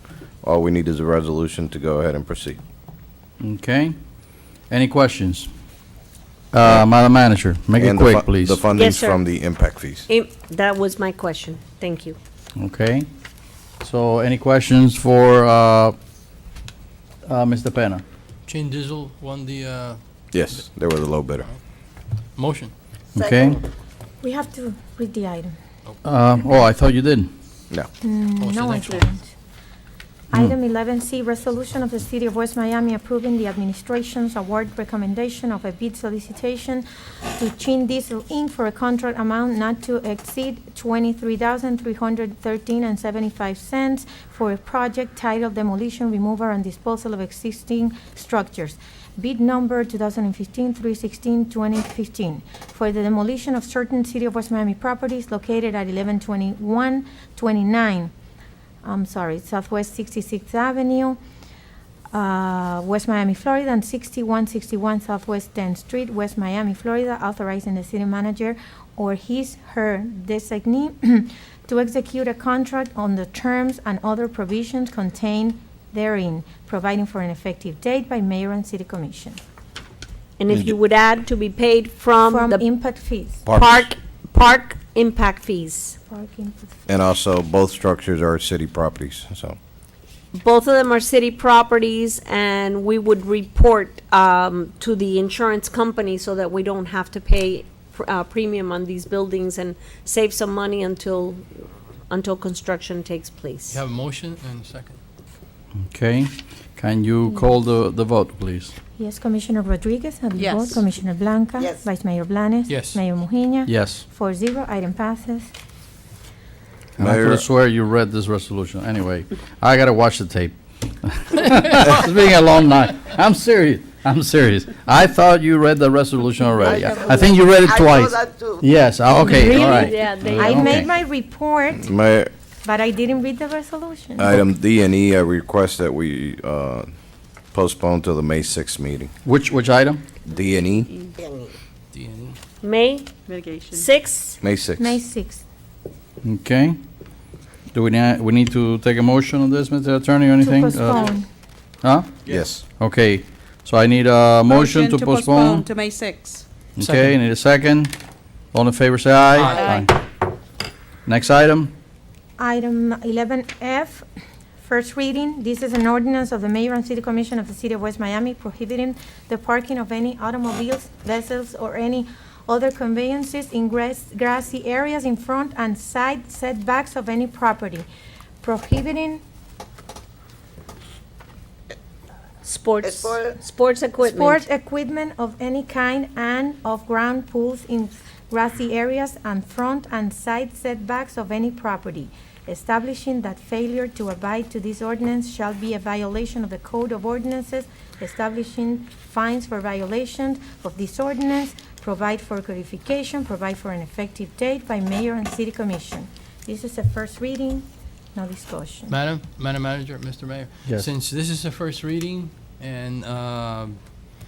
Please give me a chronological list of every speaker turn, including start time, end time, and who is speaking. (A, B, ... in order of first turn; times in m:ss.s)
0:00.4-0:02.6 A
0:03.4-0:03.9 B
0:04.7-0:05.5 B
0:06.5-0:08.6 B
0:07.8-0:10.1 A
0:08.7-0:09.2 C
0:10.1-0:12.2 C
0:12.6-0:13.1 B
0:13.8-0:16.0 B
0:17.2-0:18.0 B
0:18.5-0:20.0 D
0:20.3-0:21.5 A
0:22.4-0:22.7 D
0:23.1-0:23.6 B
0:24.2-0:25.6 E
0:26.0-0:27.3 B
0:28.0-0:29.3 E
0:28.4-0:29.2 D
0:30.3-0:36.8 E
0:37.4-0:58.1 E
0:58.8-1:01.2 E
1:02.1-1:19.4 E
1:20.4-1:22.6 C
1:22.2-1:23.4 E
1:23.4-1:23.9 A
1:23.5-1:26.0 C
1:26.1-1:26.9 E
1:26.9-1:29.6 A
1:30.3-1:41.5 C
1:42.1-1:43.8 C
1:43.7-1:45.0 D
1:45.9-1:48.7 B
1:49.0-1:55.5 E
1:50.4-1:50.8 F
1:52.7-1:53.0 D
1:53.6-1:54.0 B
1:57.0-2:10.9 B
1:57.0-1:57.4 A
2:06.7-2:08.4 A
2:09.2-2:11.8 E
2:09.2-2:10.8 C
2:11.7-2:12.3 A
2:12.6-2:14.4 E
2:14.2-2:16.9 A
2:17.5-2:19.1 A
2:19.2-2:20.0 B
2:20.2-2:20.9 A
2:21.9-2:22.4 D
2:22.6-2:23.1 C
2:23.3-2:23.8 F
2:23.7-2:24.4 C
2:24.4-2:25.0 A
2:24.8-2:25.4 E
2:26.2-2:26.8 B
2:27.7-2:31.1 B
2:30.4-2:31.3 E
2:31.8-2:35.7 B
2:32.3-2:32.6 A
2:34.4-2:36.4 F
2:36.8-2:37.9 B
2:38.5-2:39.9 B
2:39.3-2:39.8 D
2:39.5-2:39.9 F
2:41.0-2:41.7 B
2:42.4-2:44.0 E
2:44.6-2:57.9 E
2:58.4-2:59.2 E
3:02.4-3:04.4 C
3:04.0-3:29.0 E
3:28.9-3:34.0 D